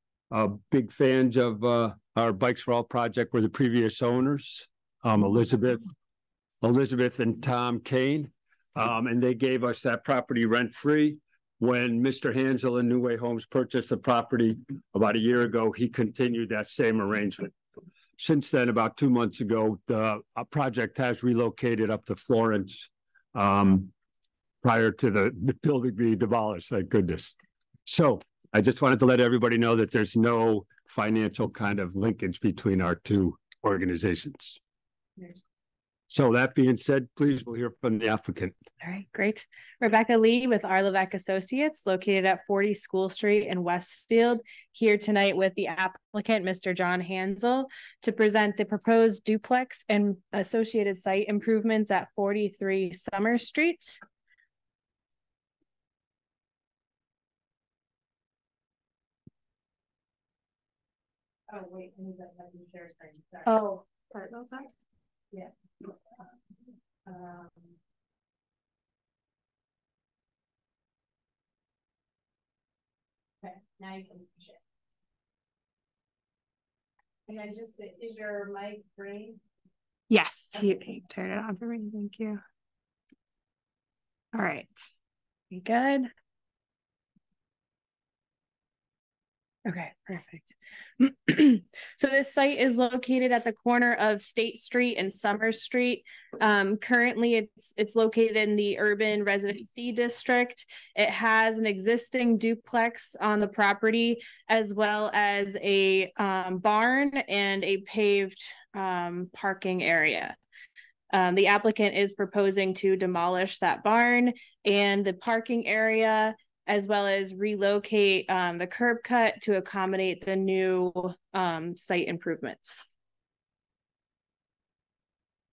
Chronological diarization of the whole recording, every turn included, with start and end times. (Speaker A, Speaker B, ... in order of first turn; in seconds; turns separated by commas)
Speaker A: 0.3-5.9, Speaker A: 6.6-17.5, Speaker A: 18.2-23.9, Speaker A: 24.6-34.6, Speaker A: 36.1-38.6, Speaker B: 38.8-54.0, Speaker C: 61.5-63.5, Speaker B: 63.5-64.7, Speaker C: 67.1-67.7, Speaker C: 73.4-74.6, Speaker C: 77.3-79.4, Speaker B: 80.1-82.4, Speaker B: 84.3-84.8, Speaker B: 85.5-86.1, Speaker B: 89.7-110.4, Speaker B: 111.1-122.8